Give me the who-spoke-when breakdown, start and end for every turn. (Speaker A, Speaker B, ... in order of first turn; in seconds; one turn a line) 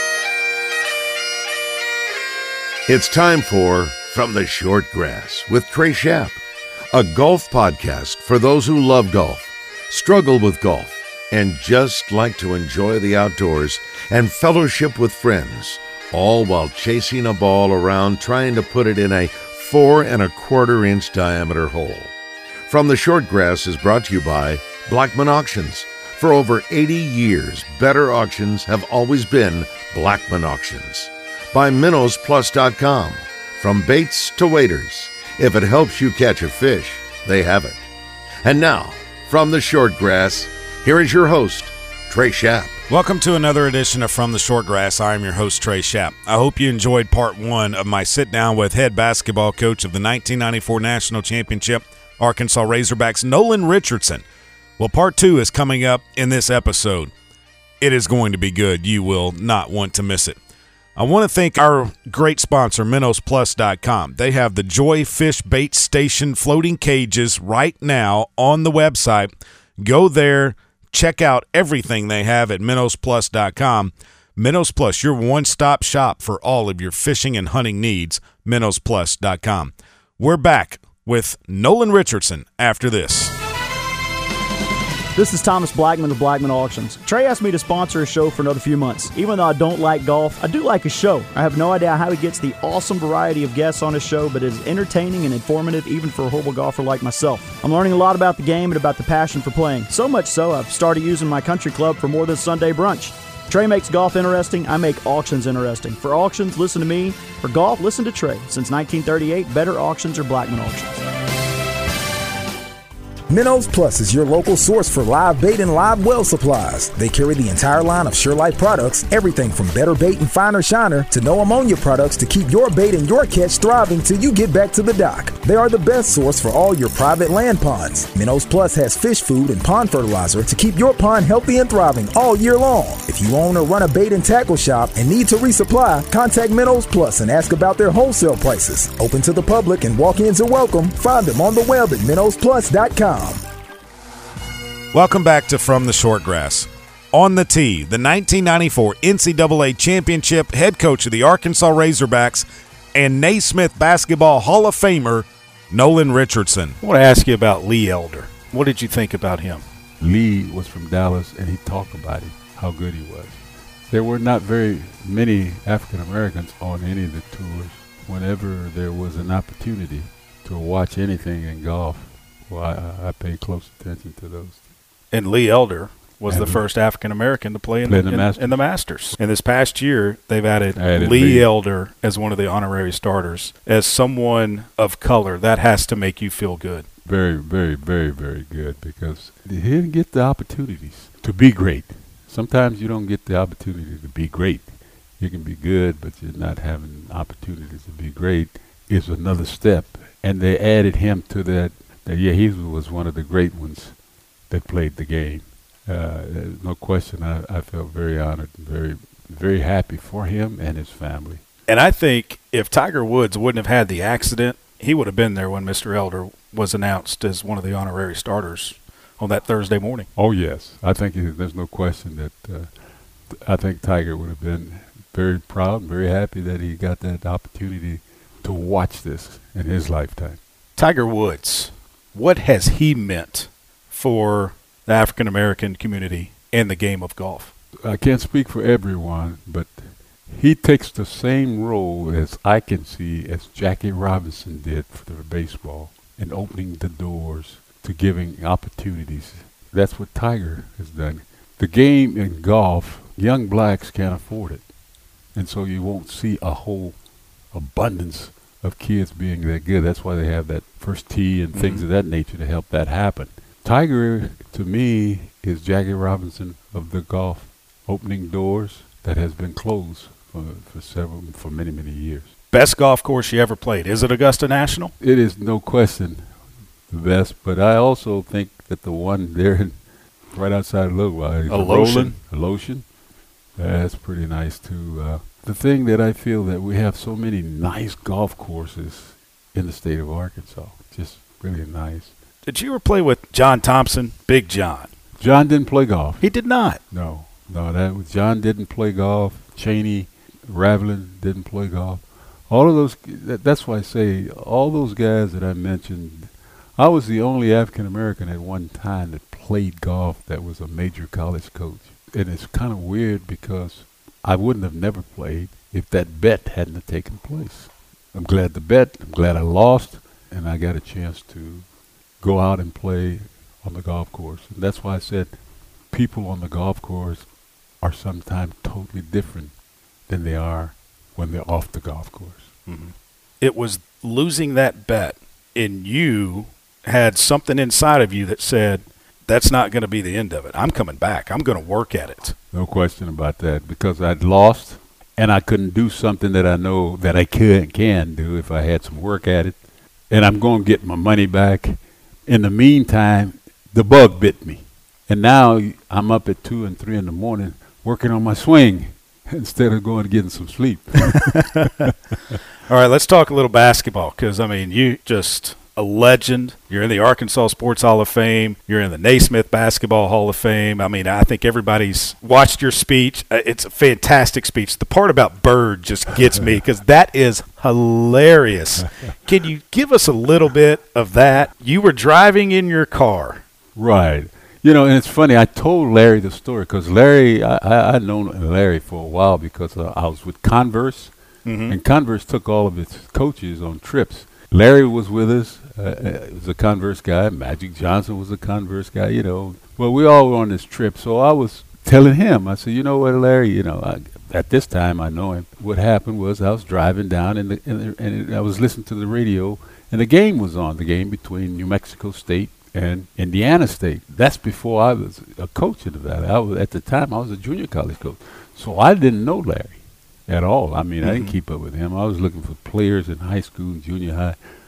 Speaker A: 2.9-6.4
Speaker A: 6.9-22.1
Speaker A: 22.7-37.8
Speaker A: 38.4-42.8
Speaker B: 42.9-54.2
Speaker B: 54.8-57.1
Speaker B: 57.8-60.4
Speaker B: 61.0-83.3
Speaker C: 85.1-110.9
Speaker D: 113.3-143.4
Speaker B: 144.9-156.8
Speaker E: 156.8-159.6
Speaker F: 160.0-174.6
Speaker E: 175.1-186.8
Speaker F: 176.3-176.6
Speaker F: 177.8-178.6
Speaker F: 180.7-181.5
Speaker F: 187.0-204.0
Speaker F: 204.5-211.4
Speaker E: 211.7-220.1
Speaker F: 220.2-222.8
Speaker F: 223.3-230.4
Speaker E: 230.8-237.5
Speaker F: 237.8-254.7
Speaker F: 255.3-257.0
Speaker F: 257.5-272.3
Speaker E: 261.5-261.8
Speaker E: 272.5-274.9
Speaker F: 275.0-276.3
Speaker F: 276.9-282.9
Speaker E: 281.5-282.2
Speaker F: 283.5-292.1
Speaker E: 292.4-294.9
Speaker F: 295.2-296.3
Speaker E: 296.2-296.8
Speaker F: 296.9-321.7
Speaker F: 322.2-325.4
Speaker F: 325.9-329.6
Speaker F: 330.1-332.5
Speaker E: 332.6-342.4
Speaker F: 342.5-361.4
Speaker E: 361.1-361.7
Speaker E: 362.7-383.4
Speaker F: 383.7-391.1
Speaker E: 391.4-391.8
Speaker F: 391.7-424.4
Speaker E: 421.0-421.3